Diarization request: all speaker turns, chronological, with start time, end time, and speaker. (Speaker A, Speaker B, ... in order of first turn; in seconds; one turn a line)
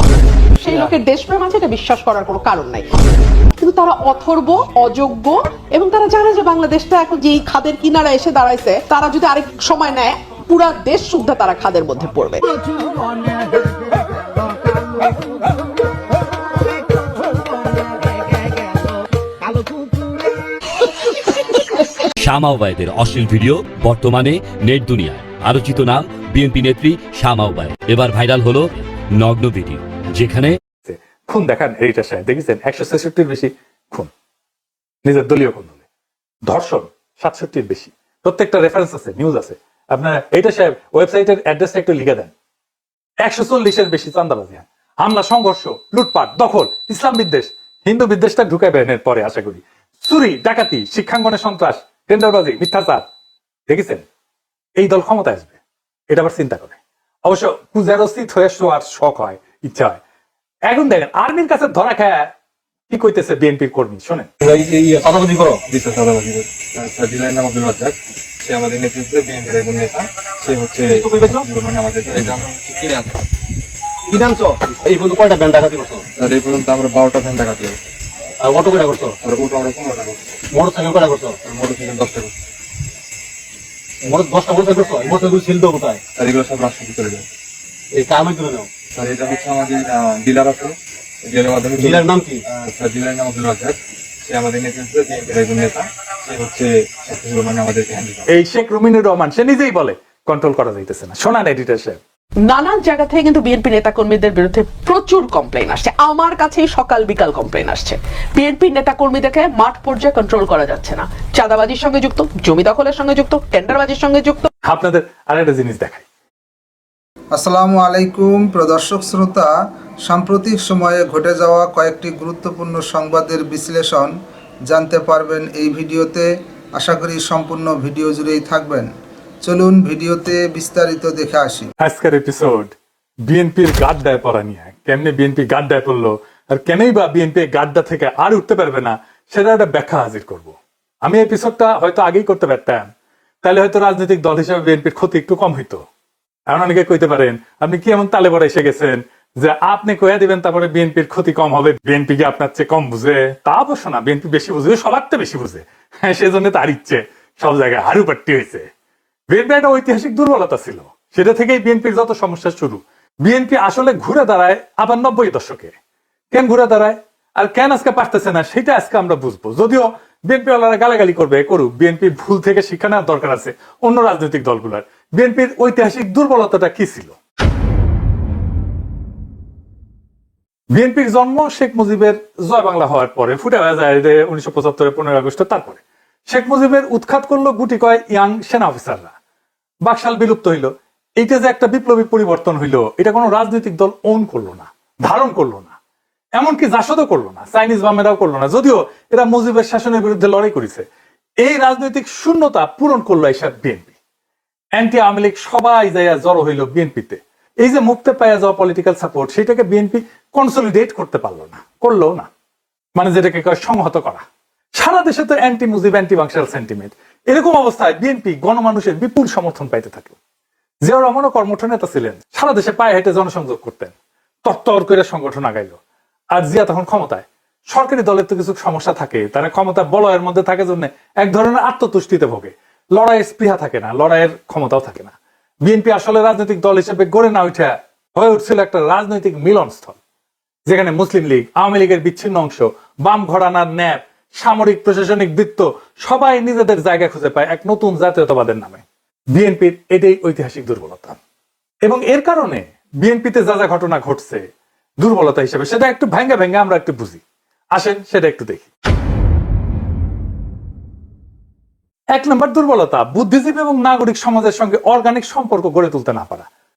Speaker A: 0.6-2.8
Speaker A: 3.6-12.4
Speaker B: 22.2-30.6
Speaker C: 30.8-34.1
Speaker C: 35.0-35.8
Speaker C: 36.5-42.3
Speaker C: 43.2-53.0
Speaker C: 53.7-54.0
Speaker C: 54.8-55.5
Speaker C: 56.1-60.0
Speaker C: 60.7-62.3
Speaker C: 62.9-64.3
Speaker D: 64.4-65.6
Speaker E: 65.7-73.1
Speaker D: 70.9-71.5
Speaker D: 74.1-76.0
Speaker E: 76.2-77.8
Speaker D: 78.4-79.2
Speaker E: 79.2-80.3
Speaker D: 80.5-81.5
Speaker E: 81.5-82.3
Speaker D: 84.0-86.0
Speaker E: 86.2-87.3
Speaker D: 88.0-88.7
Speaker E: 89.0-98.3
Speaker D: 91.8-92.4
Speaker C: 98.3-102.0
Speaker A: 102.5-114.5
Speaker C: 114.7-116.0
Speaker F: 117.3-119.5
Speaker F: 120.0-124.1
Speaker F: 124.7-128.9
Speaker F: 129.4-131.7
Speaker C: 131.8-132.8
Speaker C: 133.3-142.9
Speaker C: 143.4-145.8
Speaker C: 146.5-158.7
Speaker C: 159.3-165.8
Speaker C: 166.3-177.2
Speaker C: 180.7-189.1
Speaker C: 189.8-195.8
Speaker C: 196.4-200.8
Speaker C: 201.4-203.9
Speaker C: 204.8-212.3
Speaker C: 213.0-214.2
Speaker C: 214.8-220.2
Speaker C: 220.8-223.9
Speaker C: 224.4-225.8
Speaker C: 226.3-240.0
Speaker C: 240.7-248.8
Speaker C: 249.3-251.2
Speaker C: 251.8-254.4
Speaker C: 255.0-257.2
Speaker C: 257.7-258.7
Speaker C: 262.1-266.5